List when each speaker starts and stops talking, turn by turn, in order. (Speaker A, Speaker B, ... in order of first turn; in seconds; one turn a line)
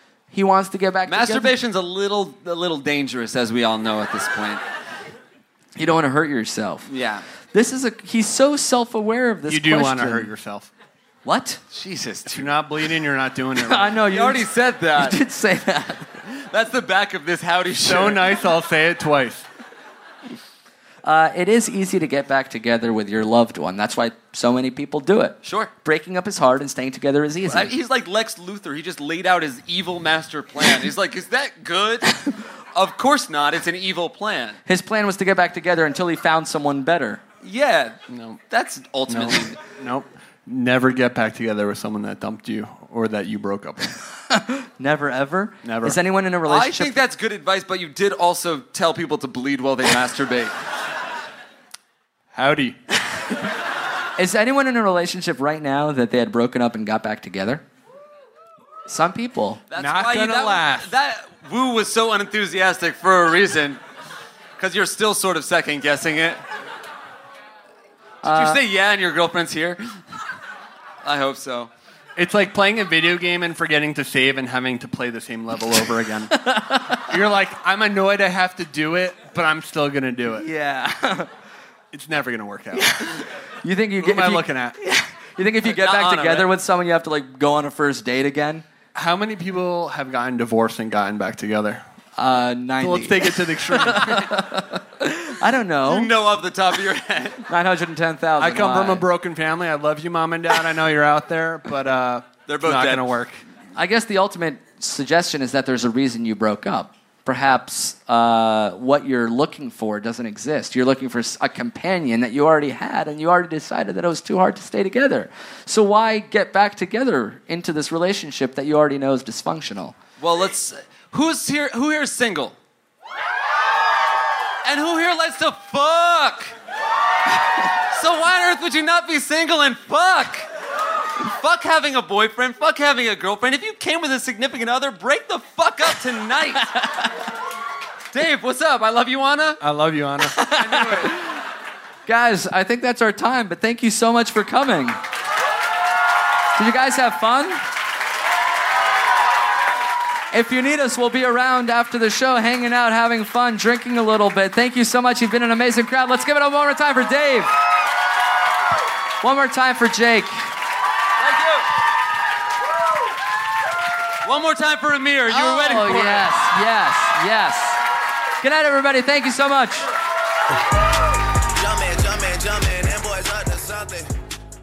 Speaker A: 0.3-1.5
Speaker B: 1.1-4.6
Speaker A: 5.8-6.9
Speaker B: 6.9-7.2
Speaker A: 7.5-10.3
Speaker C: 9.5-10.7
Speaker A: 11.2-11.6
Speaker B: 11.7-12.6
Speaker C: 12.3-14.0
Speaker A: 13.6-16.1
Speaker B: 14.1-15.2
Speaker B: 16.2-18.4
Speaker C: 17.8-19.4
Speaker A: 21.0-27.7
Speaker B: 25.4-25.7
Speaker B: 27.4-32.1
Speaker B: 32.7-34.6
Speaker A: 34.6-37.2
Speaker B: 37.4-39.6
Speaker C: 39.1-43.9
Speaker A: 44.3-47.0
Speaker C: 45.6-46.0
Speaker B: 46.5-50.5
Speaker C: 52.3-52.8
Speaker A: 54.2-57.6
Speaker A: 58.9-59.6
Speaker B: 59.7-63.8
Speaker C: 59.8-60.9
Speaker B: 64.6-66.4
Speaker A: 68.2-68.6
Speaker B: 68.2-69.9
Speaker B: 71.0-71.7
Speaker C: 72.2-80.5
Speaker A: 76.3-77.0
Speaker A: 80.3-81.3
Speaker C: 81.9-83.2
Speaker A: 82.7-88.6
Speaker C: 84.0-84.8
Speaker B: 85.6-86.5
Speaker C: 88.9-91.8
Speaker A: 92.2-96.1
Speaker C: 92.8-94.3
Speaker B: 95.8-97.5
Speaker A: 97.5-99.0
Speaker C: 98.4-103.4
Speaker B: 102.5-103.1
Speaker A: 103.8-119.9
Speaker B: 120.2-122.6
Speaker B: 124.6-126.5
Speaker B: 127.9-130.5
Speaker B: 131.2-136.7
Speaker A: 136.7-137.0
Speaker B: 138.1-139.6
Speaker C: 139.6-140.3
Speaker A: 140.3-141.2
Speaker B: 140.6-141.2
Speaker A: 142.1-145.0
Speaker A: 146.6-147.6
Speaker A: 150.3-157.5
Speaker A: 159.2-160.5
Speaker B: 161.2-161.6
Speaker B: 164.2-166.3
Speaker A: 165.3-167.8
Speaker A: 168.4-169.9
Speaker D: 171.5-174.1